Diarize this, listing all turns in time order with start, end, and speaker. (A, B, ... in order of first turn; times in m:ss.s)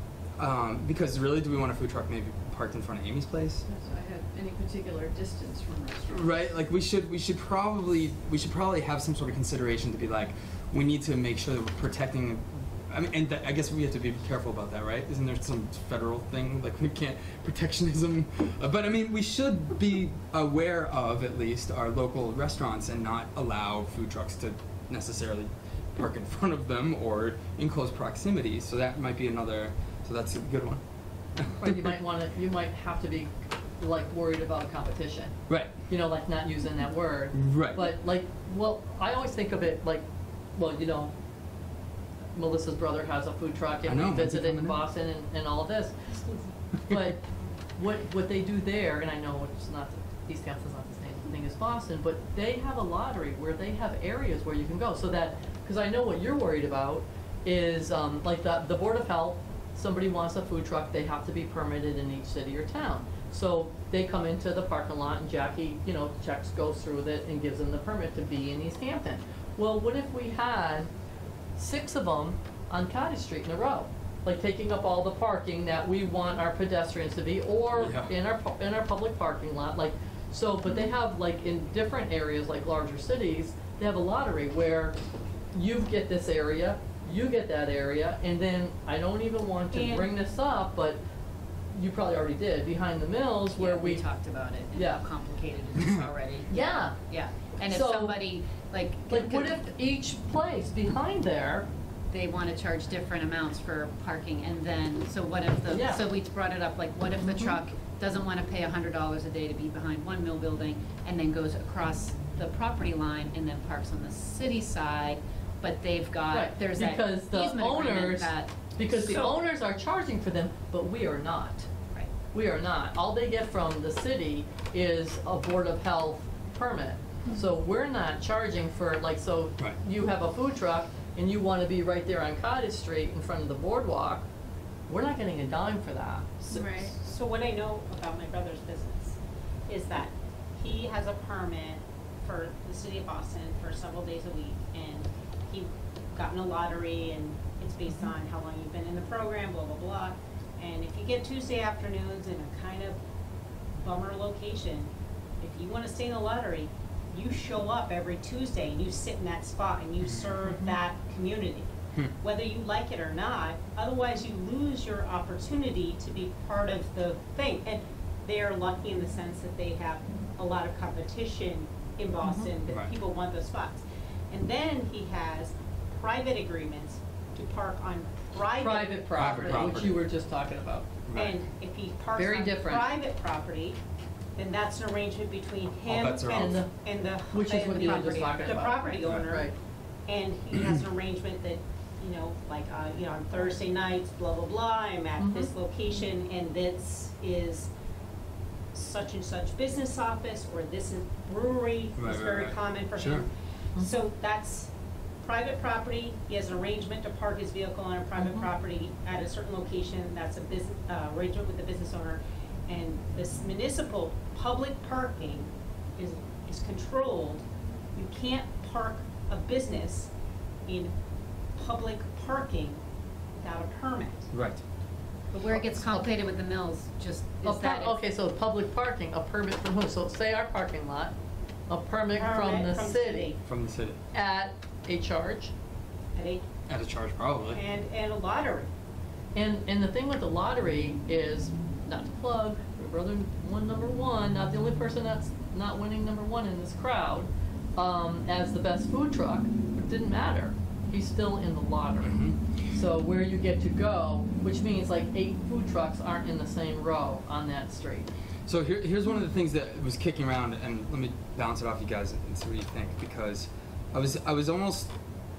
0:00.4-0:03.6 A
0:03.7-0:06.4 B
0:06.1-0:30.8 A
0:31.4-0:31.9 A
0:31.6-0:35.4 C
0:35.5-0:35.7 A
0:35.9-0:40.0 C
0:37.3-0:37.9 A
0:40.6-0:41.1 C
0:42.3-0:46.2 C
0:43.9-0:44.8 A
0:46.9-0:47.2 C
0:47.8-1:10.9 C
1:11.6-1:25.0 C
1:17.8-1:18.1 A
1:25.5-1:31.0 C
1:29.7-1:30.2 D
1:31.7-1:34.0 C
1:33.6-1:39.6 E
1:34.8-1:35.0 C
1:36.5-1:37.0 C
1:37.6-1:38.2 C
1:39.1-1:41.7 C
1:42.1-1:59.3 E
1:45.7-1:46.0 C
1:47.2-1:47.6 C
1:56.3-2:01.7 C
2:02.3-2:14.3 C
2:14.9-2:16.6 C
2:16.5-2:33.0 D
2:16.6-2:16.8 B
2:33.7-2:34.9 D
2:35.4-2:59.5 D
2:40.0-2:40.3 A
2:52.3-2:52.5 C
2:58.6-3:00.9 C
2:59.1-3:00.0 A
3:01.0-3:01.4 A
3:01.2-3:03.8 D
3:02.2-3:02.9 C
3:04.4-3:09.5 D
3:05.9-3:06.5 A
3:06.4-3:06.7 C
3:07.3-3:09.5 C
3:10.1-3:17.7 D
3:15.2-3:15.5 C
3:18.7-3:24.7 D
3:22.0-3:23.2 A
3:25.2-3:37.4 D
3:28.2-3:28.5 C
3:38.0-3:40.1 D
3:40.7-3:40.9 D
3:41.6-3:42.8 D
3:43.4-3:44.3 D
3:44.3-3:44.6 A
3:45.3-3:48.0 E
3:45.4-3:46.1 C
3:47.4-3:51.1 C
3:51.7-3:53.3 C
3:52.1-3:53.4 D
3:53.5-3:54.0 A
3:54.1-3:55.5 C
3:56.2-3:56.5 D
3:56.7-3:57.6 A
3:57.5-3:58.7 D
3:59.4-4:18.1 C
4:12.0-4:12.4 A
4:18.5-4:24.9 A